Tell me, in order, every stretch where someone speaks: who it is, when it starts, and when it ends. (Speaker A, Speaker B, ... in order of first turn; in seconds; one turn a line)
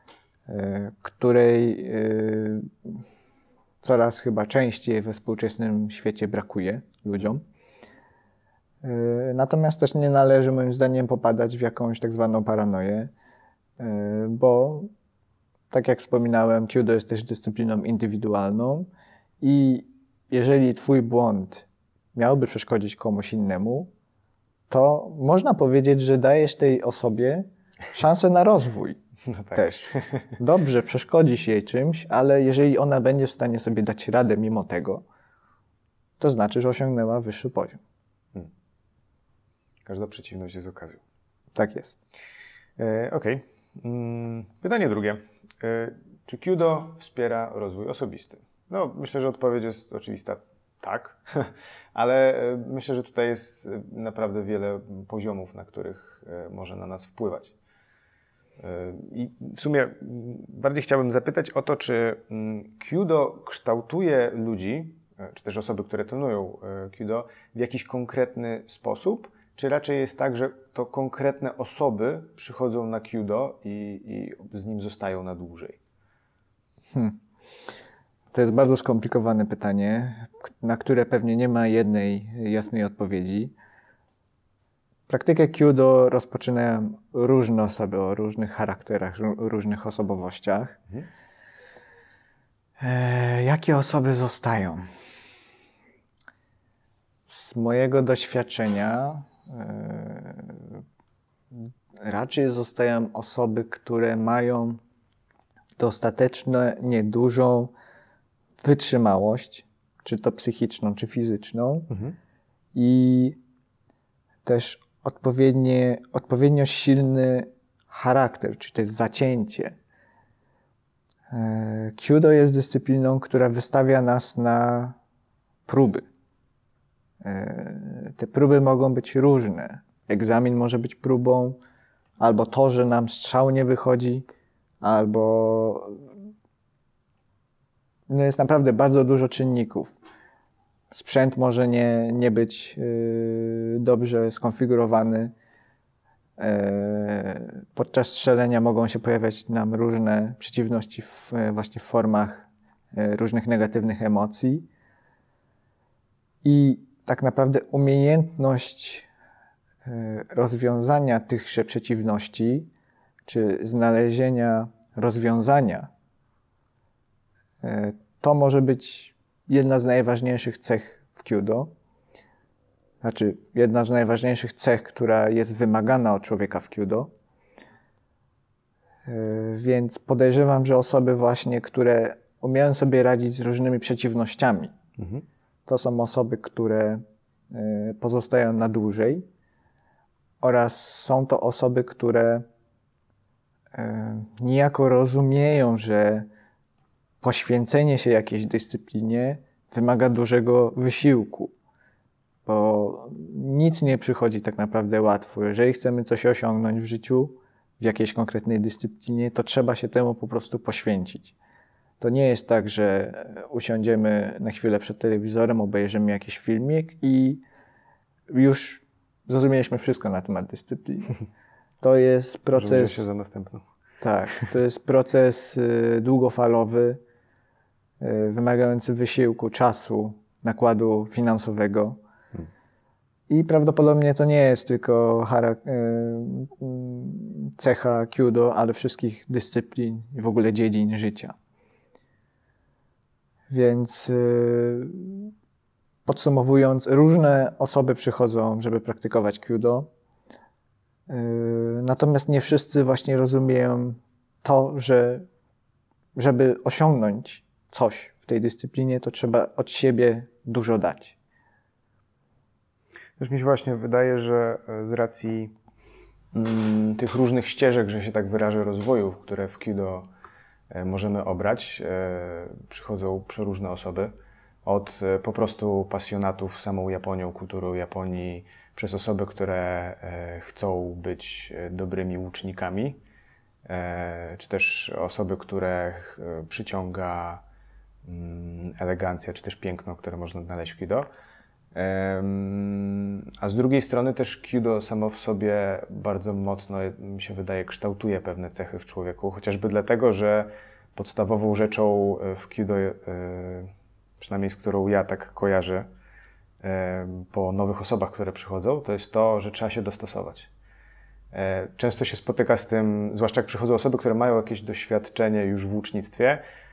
Speaker A: 0.5-3.0
Speaker A: 3.8-7.4
Speaker A: 8.8-13.1
Speaker A: 13.8-14.9
Speaker A: 15.7-18.9
Speaker A: 19.4-23.9
Speaker A: 24.7-29.0
Speaker B: 29.3-30.3
Speaker A: 29.5-35.0
Speaker A: 36.2-37.8
Speaker B: 39.9-41.0
Speaker A: 41.5-42.0
Speaker B: 42.8-57.5
Speaker B: 58.6-75.8
Speaker A: 78.3-83.5
Speaker A: 85.1-90.8
Speaker A: 92.8-94.9
Speaker A: 97.3-100.8
Speaker A: 101.5-104.8
Speaker A: 105.8-107.7
Speaker A: 108.6-111.9
Speaker A: 112.7-113.4
Speaker A: 114.5-119.8
Speaker A: 121.3-125.0
Speaker A: 125.7-126.0
Speaker A: 127.2-131.6
Speaker A: 132.2-134.3
Speaker A: 134.8-136.1
Speaker A: 138.1-140.0
Speaker A: 140.9-145.3
Speaker A: 146.4-154.7
Speaker A: 156.4-159.1
Speaker A: 159.8-162.7
Speaker A: 163.3-165.9
Speaker A: 167.6-171.7
Speaker A: 173.0-177.1
Speaker A: 179.1-184.7
Speaker B: 185.0-185.2
Speaker A: 185.7-189.3
Speaker A: 190.4-192.5
Speaker A: 193.7-196.3
Speaker A: 197.2-201.5
Speaker A: 202.5-211.3
Speaker A: 212.0-217.4
Speaker A: 218.3-221.2
Speaker A: 221.8-223.1
Speaker B: 222.5-223.7
Speaker A: 224.0-227.0
Speaker A: 228.0-232.0
Speaker A: 233.3-241.3
Speaker A: 243.5-245.3
Speaker A: 246.1-249.9
Speaker A: 251.1-255.3
Speaker A: 256.1-261.2
Speaker B: 263.2-265.6
Speaker B: 266.3-270.1
Speaker B: 270.7-274.1
Speaker B: 274.6-283.0
Speaker B: 283.7-287.4
Speaker B: 288.1-291.1
Speaker B: 291.8-305.9
Speaker B: 306.6-310.5
Speaker B: 311.3-316.4